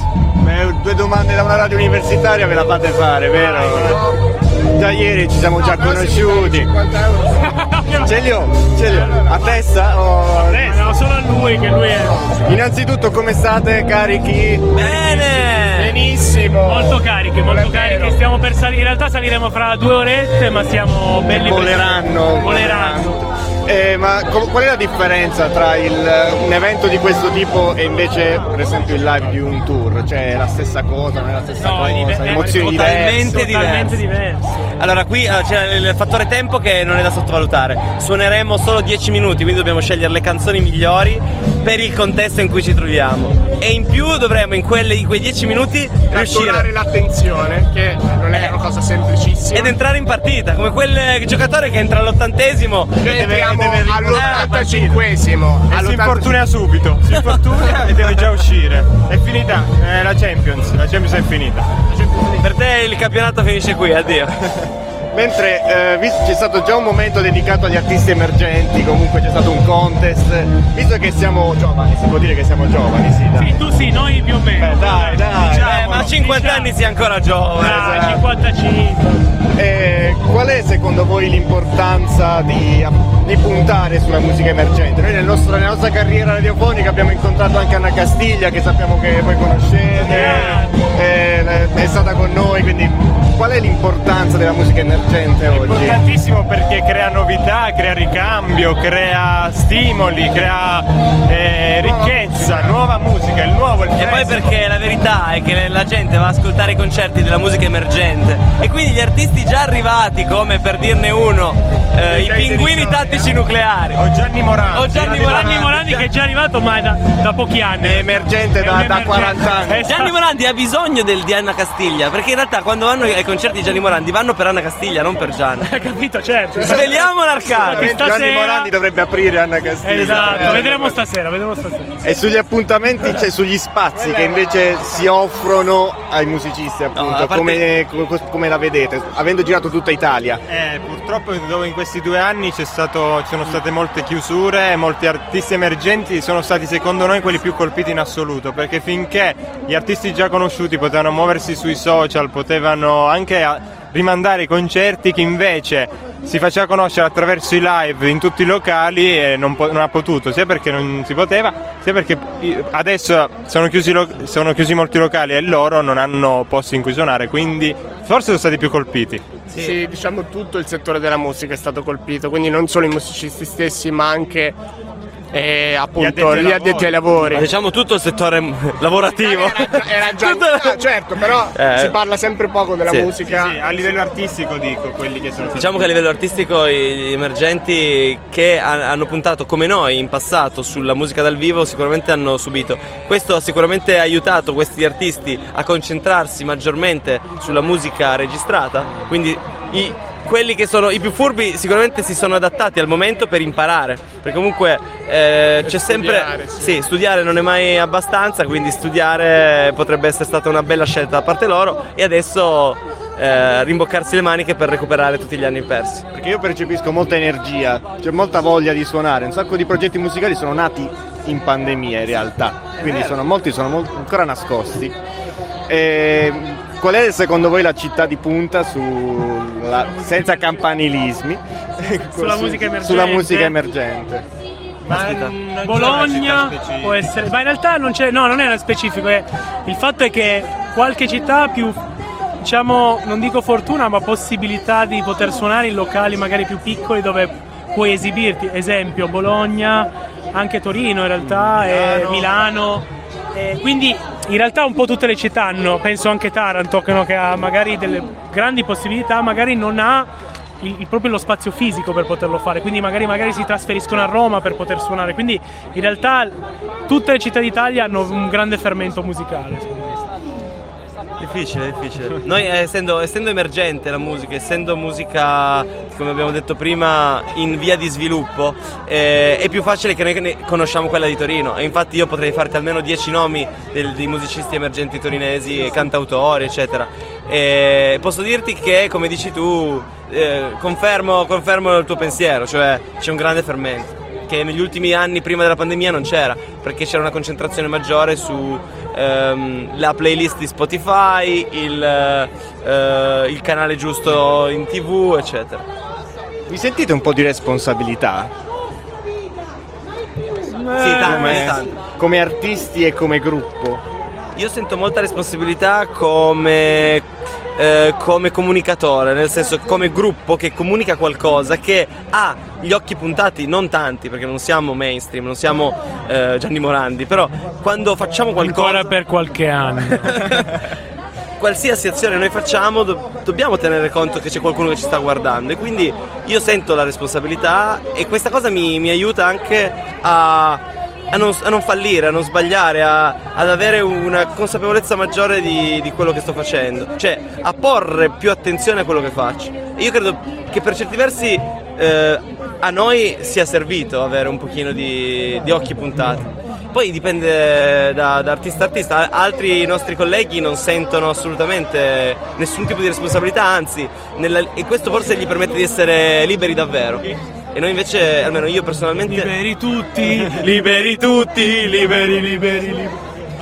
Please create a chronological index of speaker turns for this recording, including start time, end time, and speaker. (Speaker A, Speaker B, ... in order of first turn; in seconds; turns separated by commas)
Speaker A: 0.4-4.1, Speaker B: 3.7-4.2, Speaker A: 4.7-6.7, Speaker B: 5.6-7.5, Speaker C: 7.5-8.2, Speaker A: 8.0-10.9, Speaker B: 8.9-9.4, Speaker C: 10.3-12.4, Speaker A: 12.4-14.7, Speaker D: 14.7-16.0, Speaker C: 14.8-15.3, Speaker B: 15.7-18.2, Speaker C: 16.6-23.2, Speaker A: 21.3-33.3, Speaker C: 31.6-34.8, Speaker D: 32.5-34.0, Speaker D: 34.8-46.7, Speaker B: 46.1-49.8, Speaker D: 49.5-53.2, Speaker B: 53.0-56.5, Speaker E: 53.1-55.0, Speaker D: 54.1-54.7, Speaker E: 55.7-61.7, Speaker D: 57.1-57.8, Speaker B: 61.9-62.5, Speaker D: 62.4-64.7, Speaker A: 65.1-73.6, Speaker C: 73.4-76.8, Speaker E: 74.6-76.0, Speaker A: 74.8-75.8, Speaker D: 75.4-78.2, Speaker C: 77.6-79.3, Speaker A: 77.7-78.2, Speaker A: 79.5-96.0, Speaker C: 90.0-90.8, Speaker E: 90.0-90.6, Speaker E: 95.5-104.6, Speaker A: 101.9-102.2, Speaker D: 104.0-114.0, Speaker E: 112.2-112.9, Speaker E: 113.9-115.6, Speaker D: 114.7-116.1, Speaker C: 115.0-120.2, Speaker A: 117.8-119.9, Speaker D: 119.8-125.8, Speaker C: 125.6-127.0, Speaker D: 126.6-128.0, Speaker A: 127.5-131.0, Speaker B: 127.6-128.1, Speaker C: 127.6-128.7, Speaker C: 129.8-131.9, Speaker D: 130.0-130.3, Speaker B: 130.3-130.6, Speaker A: 132.0-140.4, Speaker D: 136.9-137.7, Speaker E: 140.5-169.2, Speaker D: 169.5-169.8, Speaker B: 169.5-174.6, Speaker B: 175.3-177.5, Speaker E: 175.9-177.4, Speaker D: 177.3-180.8, Speaker B: 179.0-183.6, Speaker D: 181.5-182.0, Speaker D: 182.9-183.1, Speaker E: 183.2-185.8, Speaker D: 185.6-216.1, Speaker B: 205.6-206.8, Speaker A: 216.1-224.9, Speaker D: 222.8-223.2, Speaker A: 225.7-234.3, Speaker C: 232.2-233.6, Speaker E: 234.8-237.1, Speaker D: 234.9-235.4, Speaker C: 235.6-241.8, Speaker C: 242.4-270.1, Speaker A: 251.8-252.1, Speaker D: 271.2-305.6, Speaker A: 306.5-308.3, Speaker C: 310.5-311.5, Speaker D: 310.8-311.8, Speaker A: 311.0-313.8, Speaker D: 314.4-317.1, Speaker D: 317.6-329.0, Speaker C: 328.4-330.2, Speaker D: 329.9-330.6, Speaker D: 331.4-369.4, Speaker C: 369.1-370.5, Speaker D: 370.1-372.9